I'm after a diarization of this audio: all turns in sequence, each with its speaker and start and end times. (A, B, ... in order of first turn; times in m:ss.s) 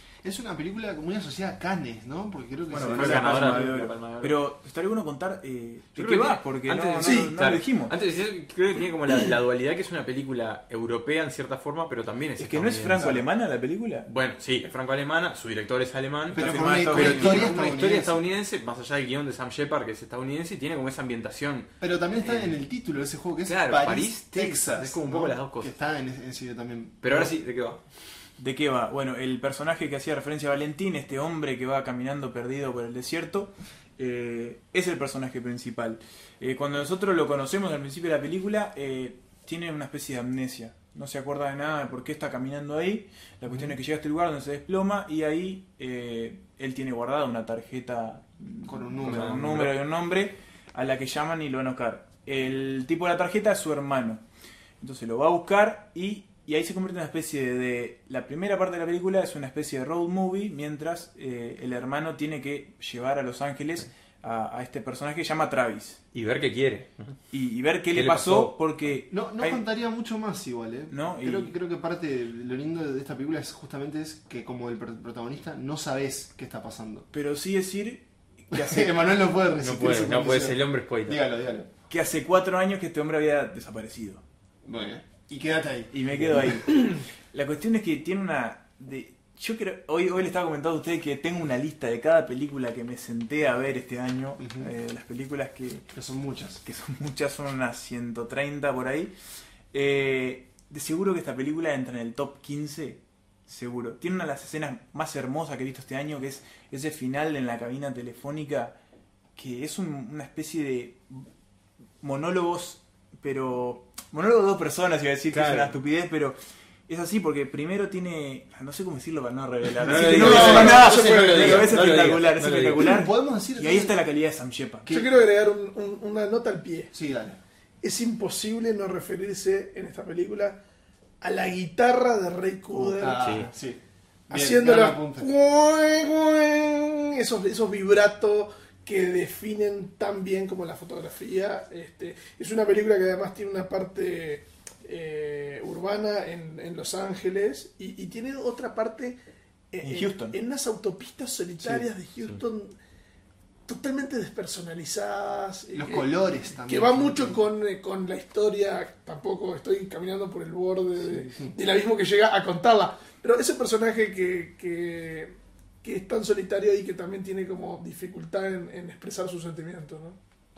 0:00.2-0:03.7 A
0:02.7-0:07.9 B
0:02.8-0:04.4 C
0:06.0-0:13.2 C
0:07.0-0:07.3 D
0:12.4-0:14.1 B
0:13.0-0:13.2 A
0:14.0-0:21.7 C
0:16.3-0:18.2 A
0:16.3-0:17.6 B
0:21.8-0:27.0 A
0:22.2-0:22.6 C
0:23.4-0:25.7 C
0:27.0-0:27.8 C
0:28.4-0:54.2 B
0:48.6-0:49.6 A
0:49.0-0:49.8 C
0:54.8-1:06.0 B
1:06.1-1:07.1 C
1:07.3-1:09.6 B
1:07.9-1:08.6 C
1:09.1-1:17.1 A
1:10.9-1:11.5 B
1:17.1-1:18.9 B
1:18.5-1:21.7 A
1:19.6-1:21.2 C
1:21.9-1:24.2 B
1:24.6-1:26.7 A
1:25.9-1:35.8 B
1:34.4-1:34.7 A
1:35.9-1:36.6 A
1:36.6-1:39.1 B
1:39.7-1:48.8 B
1:49.4-1:51.3 B
1:52.0-2:04.8 B
1:55.3-1:55.8 C
1:59.7-2:02.9 C
2:00.0-2:01.7 D
2:00.2-2:01.7 A
2:02.8-2:04.0 A
2:04.8-2:05.1 A
2:04.9-2:06.9 D
2:06.9-2:07.4 A
2:07.8-2:10.6 D
2:11.2-2:13.3 D
2:12.7-2:15.3 A
2:13.2-2:13.5 C
2:14.3-2:29.2 D
2:29.7-2:32.8 D
2:29.8-2:30.4 B
2:33.7-2:36.1 D
2:35.7-2:37.4 A
2:36.6-2:50.2 D
2:41.1-2:41.6 A